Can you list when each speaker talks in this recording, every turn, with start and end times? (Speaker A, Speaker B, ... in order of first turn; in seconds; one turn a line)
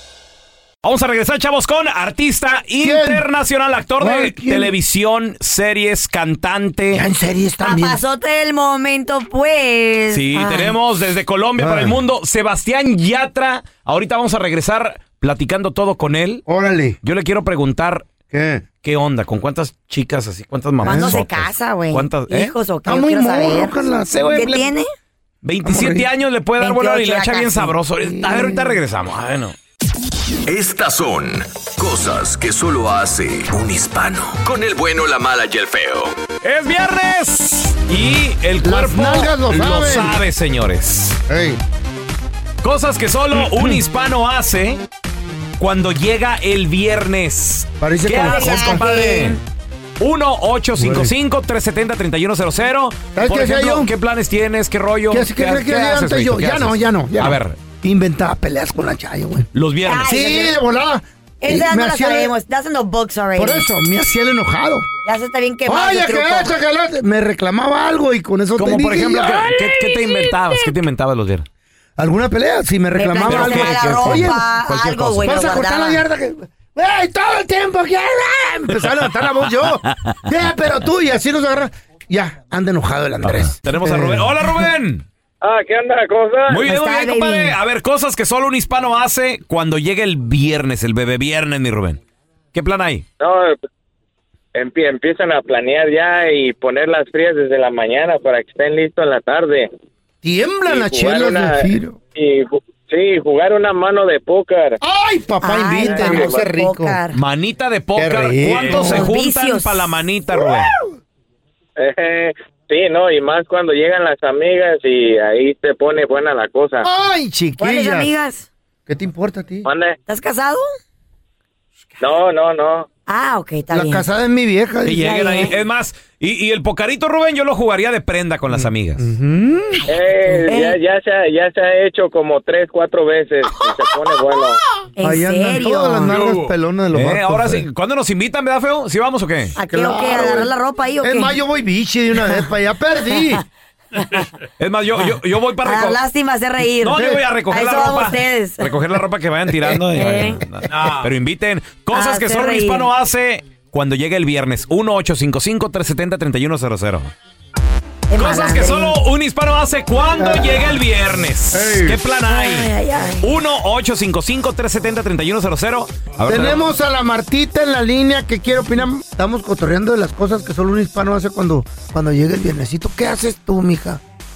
Speaker A: 0.8-7.0
Speaker B: 2.8-3.2
Speaker B: 4.0-4.7
Speaker B: 6.9-8.0
Speaker C: 7.6-10.8
Speaker A: 10.1-16.4
Speaker B: 11.6-12.0
Speaker B: 16.5-17.0
Speaker A: 17.0-18.1
Speaker B: 18.3-18.6
Speaker A: 18.8-22.5
Speaker B: 20.8-21.2
Speaker C: 20.8-23.8
Speaker B: 22.9-24.7
Speaker C: 24.3-24.9
Speaker A: 25.4-29.6
Speaker B: 25.6-26.1
Speaker C: 26.6-27.7
Speaker B: 28.0-28.8
Speaker D: 30.5-36.1
Speaker A: 36.4-41.2
Speaker B: 38.6-40.2
Speaker B: 41.3-41.6
Speaker A: 42.6-44.8
Speaker A: 45.6-49.4
Speaker B: 47.8-48.9
Speaker C: 48.2-49.4
Speaker A: 50.0-57.6
Speaker B: 50.8-51.1
Speaker B: 53.1-53.9
Speaker B: 55.1-59.5
Speaker A: 59.5-60.1
Speaker C: 59.9-60.5
Speaker B: 60.0-62.3
Speaker C: 61.4-63.7
Speaker B: 63.4-64.9
Speaker C: 65.0-66.5
Speaker B: 65.7-70.3
Speaker A: 68.6-71.5
Speaker B: 72.0-84.7
Speaker C: 73.0-76.0
Speaker A: 73.2-75.3
Speaker A: 83.2-85.0
Speaker E: 85.4-86.6
Speaker A: 86.5-92.0
Speaker C: 86.6-87.6
Speaker A: 92.5-93.0
Speaker E: 93.2-93.6
Speaker E: 94.5-99.7
Speaker B: 100.2-102.0
Speaker E: 100.7-101.6
Speaker E: 102.2-104.8
Speaker B: 104.8-107.0
Speaker C: 105.4-107.2
Speaker E: 105.8-106.4
Speaker A: 107.1-110.7
Speaker B: 108.0-109.1
Speaker C: 108.6-110.0
Speaker B: 110.3-110.9
Speaker E: 111.8-116.9
Speaker B: 116.8-118.1
Speaker C: 117.6-118.5
Speaker B: 118.9-119.7
Speaker E: 119.7-120.0
Speaker C: 120.1-120.7
Speaker E: 122.0-122.9
Speaker C: 123.1-124.0
Speaker B: 123.7-125.5
Speaker A: 124.8-129.1
Speaker C: 125.0-125.5
Speaker B: 128.5-129.8
Speaker C: 129.9-130.8
Speaker E: 129.9-134.6
Speaker C: 135.0-136.2
Speaker B: 135.0-137.7
Speaker A: 136.9-139.6
Speaker C: 139.6-141.3
Speaker B: 139.7-143.4
Speaker A: 144.6-146.0
Speaker C: 145.6-148.7
Speaker A: 146.8-157.1
Speaker B: 146.9-147.2
Speaker C: 149.9-150.4
Speaker C: 151.9-152.9
Speaker C: 158.1-159.0
Speaker A: 158.2-162.7
Speaker B: 160.2-160.8
Speaker B: 161.5-162.0
Speaker C: 162.3-163.3
Speaker A: 163.2-166.6
Speaker B: 166.2-174.0